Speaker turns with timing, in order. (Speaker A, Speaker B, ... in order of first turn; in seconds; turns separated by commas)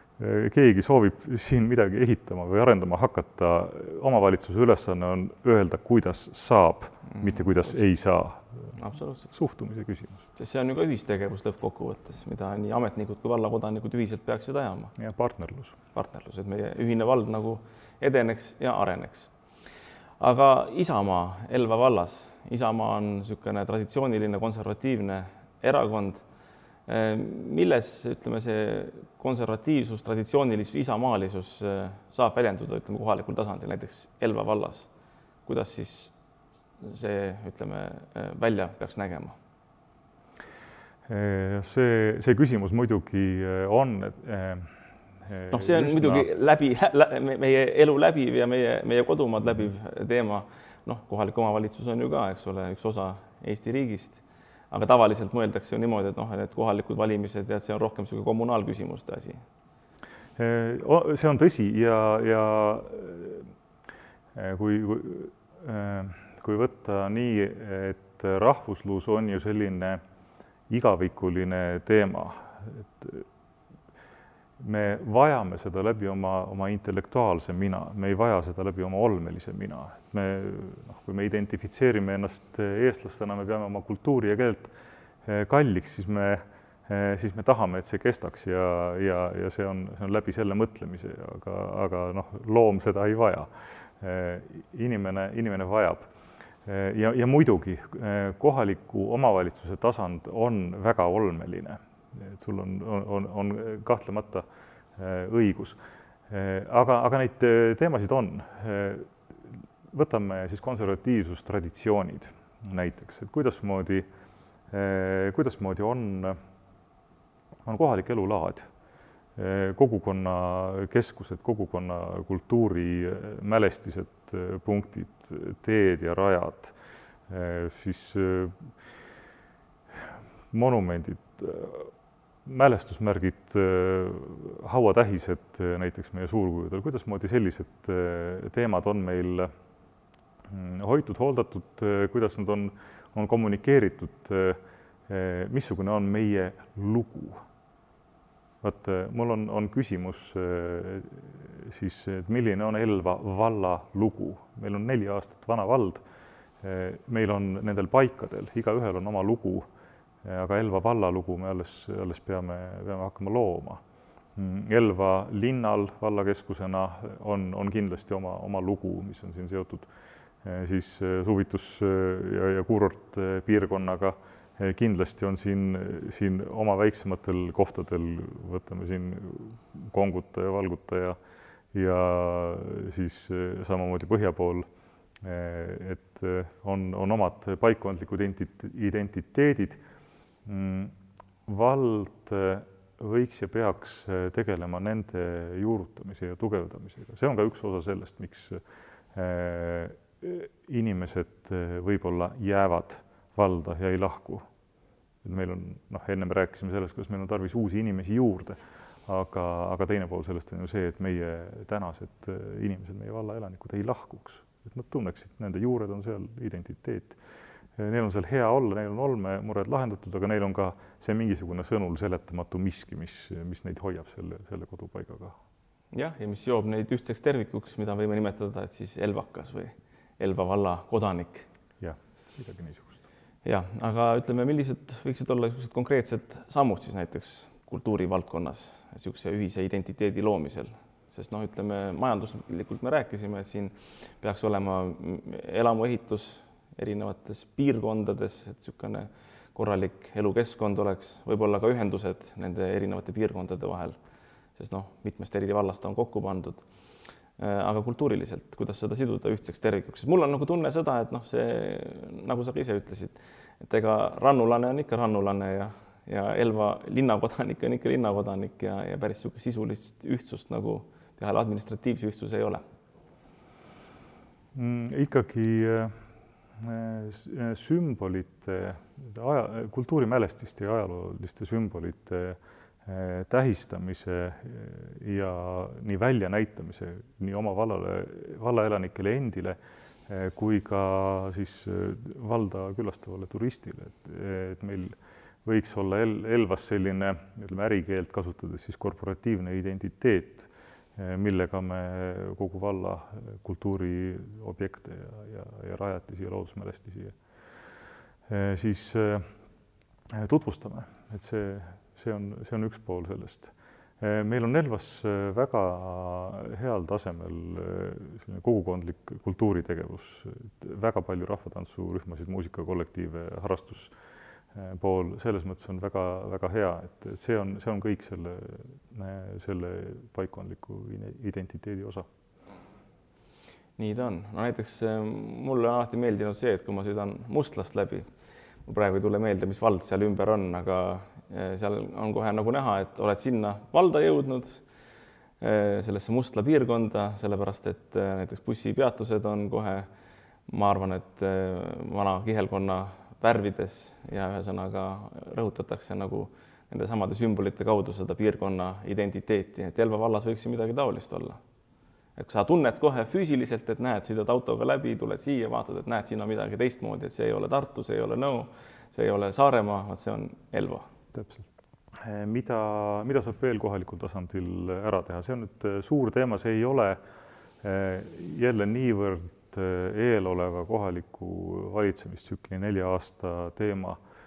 Speaker A: 0.2-8.7, Speaker B: 7.1-7.4, Speaker B: 8.8-9.3, Speaker A: 9.3-10.2, Speaker B: 10.3-14.9, Speaker A: 14.9-15.8, Speaker B: 15.9-19.3, Speaker B: 20.2-26.2, Speaker B: 26.9-34.9, Speaker B: 35.5-36.1, Speaker B: 36.8-39.4, Speaker A: 41.1-46.3, Speaker B: 45.5-59.4, Speaker A: 60.4-63.5, Speaker A: 64.3-70.0, Speaker A: 70.7-73.2, Speaker A: 74.6-84.7, Speaker A: 85.2-96.1, Speaker A: 96.6-104.4, Speaker A: 105.0-105.8, Speaker A: 106.3-114.1, Speaker A: 114.7-116.4, Speaker A: 117.6-118.7, Speaker A: 119.3-126.8, Speaker A: 127.3-128.7, Speaker A: 129.9-131.9, Speaker A: 132.4-139.5, Speaker A: 140.5-147.4, Speaker A: 148.6-156.0, Speaker A: 156.6-159.7, Speaker A: 160.2-163.8, Speaker A: 164.3-169.9, Speaker A: 170.4-181.2, Speaker A: 181.7-184.7, Speaker A: 185.2-189.8, Speaker A: 190.4-190.9, Speaker A: 191.4-198.6, Speaker A: 199.1-204.5, Speaker A: 205.2-217.2, Speaker A: 217.8-225.3, Speaker B: 225.9-231.5, Speaker A: 231.8-233.0, Speaker B: 233.4-254.0, Speaker B: 254.6-256.6, Speaker B: 257.4-272.6, Speaker A: 274.5-276.0, Speaker A: 276.6-307.6, Speaker A: 308.3-309.3, Speaker A: 310.1-323.9, Speaker A: 324.5-332.1, Speaker B: 333.8-338.1, Speaker B: 338.6-344.6, Speaker B: 345.4-349.9, Speaker B: 350.5-361.4, Speaker B: 362.2-370.9, Speaker A: 371.1-371.4, Speaker A: 372.0-377.0, Speaker A: 377.6-384.0